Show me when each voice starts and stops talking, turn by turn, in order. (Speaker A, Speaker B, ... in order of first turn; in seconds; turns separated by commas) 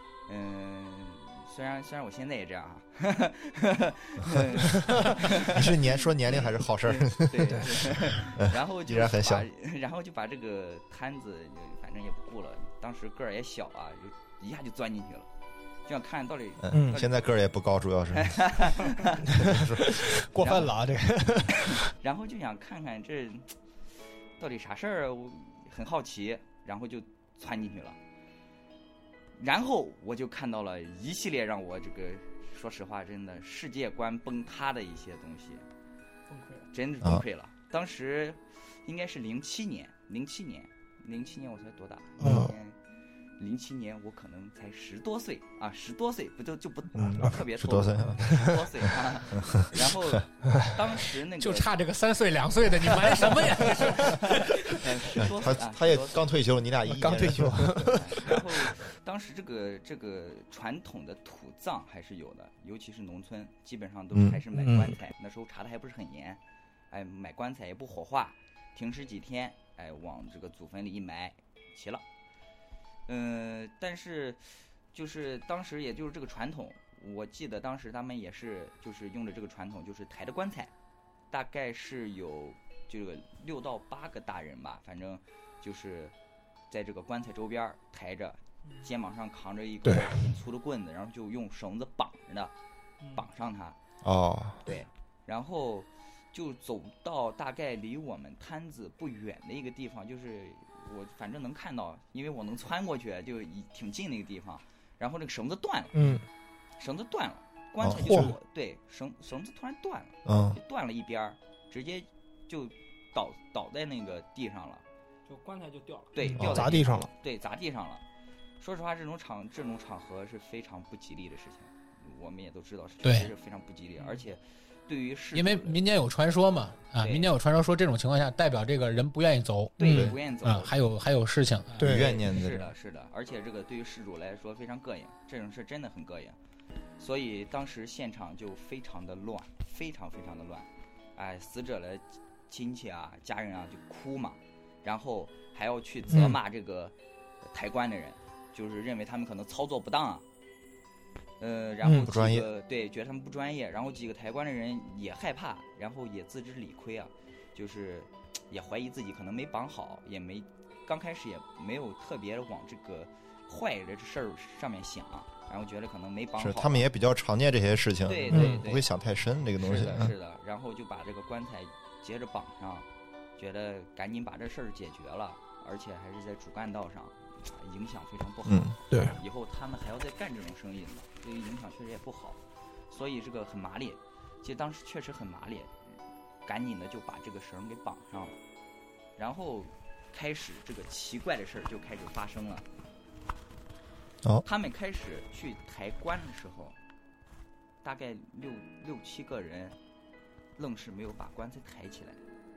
Speaker A: 0.3-15.3, Speaker B: 4.9-9.5, Speaker A: 15.8-17.4, Speaker B: 16.6-20.3, Speaker C: 16.7-17.0, Speaker A: 18.1-19.2, Speaker C: 19.3-21.8, Speaker A: 20.4-20.8, Speaker A: 21.9-23.6, Speaker A: 24.4-28.0, Speaker A: 29.4-35.6, Speaker D: 36.3-36.7, Speaker A: 36.7-42.8, Speaker C: 42.2-42.5, Speaker A: 43.4-51.7, Speaker B: 46.9-49.5, Speaker E: 51.4-55.2, Speaker A: 53.6-56.3, Speaker B: 55.2-58.2, Speaker C: 56.9-58.3, Speaker A: 57.8-66.4, Speaker B: 64.1-64.4, Speaker C: 64.5-64.9, Speaker A: 66.9-72.0, Speaker A: 73.1-80.7, Speaker A: 81.3-86.1, Speaker A: 86.7-92.5, Speaker D: 88.6-88.9, Speaker C: 89.9-90.2, Speaker D: 93.0-93.3, Speaker A: 93.1-93.8, Speaker B: 94.0-94.6, Speaker A: 94.7-106.1, Speaker C: 105.9-106.2, Speaker A: 106.8-114.8, Speaker B: 107.8-108.3, Speaker C: 108.1-108.3, Speaker B: 110.2-110.6, Speaker D: 115.3-116.1, Speaker A: 116.1-118.0, Speaker C: 116.2-117.1, Speaker B: 116.4-116.8, Speaker A: 118.6-125.8, Speaker E: 123.0-123.3, Speaker E: 125.3-131.9, Speaker A: 127.0-127.3, Speaker C: 129.8-130.1, Speaker A: 129.8-130.8, Speaker B: 129.9-130.2, Speaker C: 131.8-132.1, Speaker B: 131.8-132.7, Speaker A: 131.9-136.4, Speaker A: 137.0-150.2, Speaker B: 146.1-146.3, Speaker A: 151.4-166.8, Speaker B: 151.9-152.5, Speaker B: 166.4-170.1, Speaker A: 168.1-168.9, Speaker C: 168.3-168.6, Speaker A: 169.6-172.9, Speaker A: 173.4-188.4, Speaker B: 178.4-178.8, Speaker C: 178.9-179.2, Speaker A: 189.2-192.7, Speaker A: 194.4-196.8, Speaker A: 197.8-199.8, Speaker A: 200.6-202.2